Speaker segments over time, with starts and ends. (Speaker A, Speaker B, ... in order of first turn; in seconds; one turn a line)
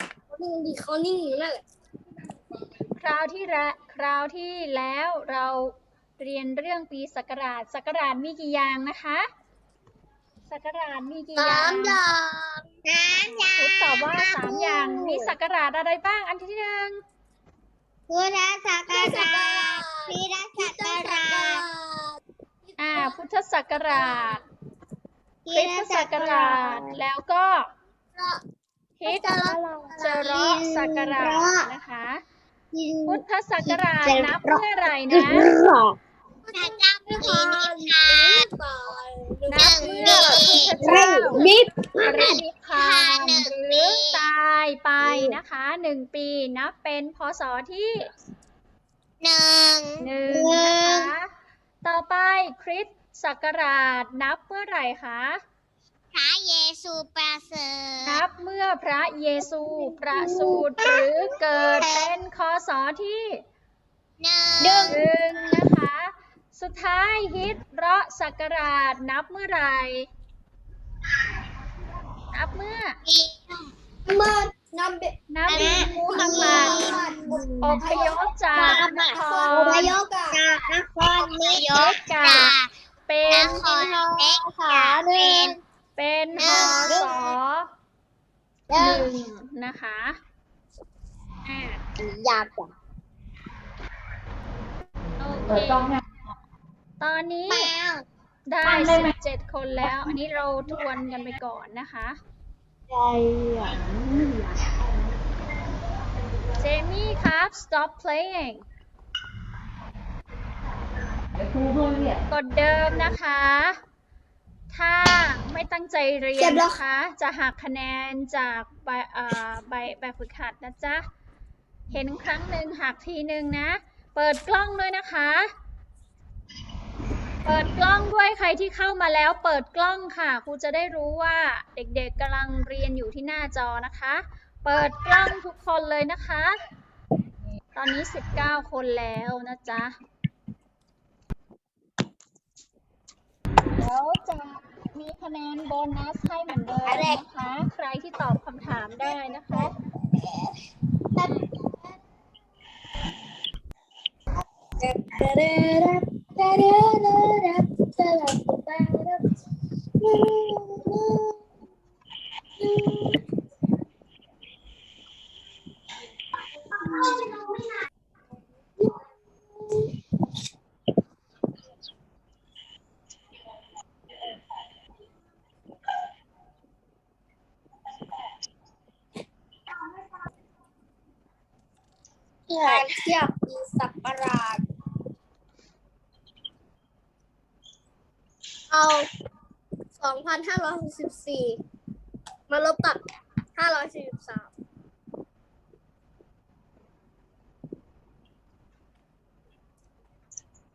Speaker A: 0.3-1.6
Speaker B: 3.0-9.3
Speaker B: 10.5-12.0
Speaker A: 11.5-12.2
Speaker C: 12.8-15.0
Speaker B: 13.2-17.0
Speaker C: 18.1-21.7
Speaker A: 18.9-22.0
Speaker A: 22.7-23.0
Speaker B: 22.8-24.4
Speaker C: 25.4-26.8
Speaker B: 25.5-27.7
Speaker B: 29.0-29.4
Speaker A: 29.1-30.0
Speaker C: 29.3-31.5
Speaker B: 30.0-32.2
Speaker B: 33.0-35.5
Speaker A: 36.5-42.3
Speaker C: 36.5-38.5
Speaker B: 39.5-48.0
Speaker C: 39.5-40.8
Speaker C: 42.7-44.3
Speaker C: 49.2-51.1
Speaker B: 50.0-51.3
Speaker B: 51.8-55.4
Speaker C: 56.1-58.2
Speaker B: 58.0-63.4
Speaker C: 64.2-65.0
Speaker B: 64.9-70.1
Speaker B: 72.3-73.0
Speaker C: 73.0-73.7
Speaker A: 74.1-80.4
Speaker B: 75.3-76.9
Speaker C: 75.5-77.4
Speaker B: 77.6-80.0
Speaker C: 78.6-82.7
Speaker B: 81.7-82.5
Speaker B: 83.1-83.6
Speaker C: 83.3-85.6
Speaker A: 83.6-85.5
Speaker B: 86.0-87.7
Speaker C: 86.3-87.1
Speaker A: 86.8-87.3
Speaker C: 88.7-89.1
Speaker B: 88.7-90.2
Speaker B: 91.5-91.8
Speaker B: 95.2-96.0
Speaker B: 97.0-97.7
Speaker C: 97.5-98.0
Speaker B: 98.5-102.2
Speaker B: 106.6-108.6
Speaker B: 112.3-113.8
Speaker B: 114.7-121.0
Speaker A: 116.4-116.7
Speaker B: 121.9-125.5
Speaker B: 127.4-136.5
Speaker B: 137.7-139.9
Speaker B: 143.8-149.7
Speaker A: 154.8-159.2
Speaker A: 160.0-161.3
Speaker A: 162.6-163.2
Speaker A: 166.8-167.6
Speaker A: 182.5-184.6
Speaker C: 182.6-182.9
Speaker A: 188.7-189.1
Speaker A: 190.0-191.6
Speaker A: 192.5-193.0
Speaker A: 193.6-194.5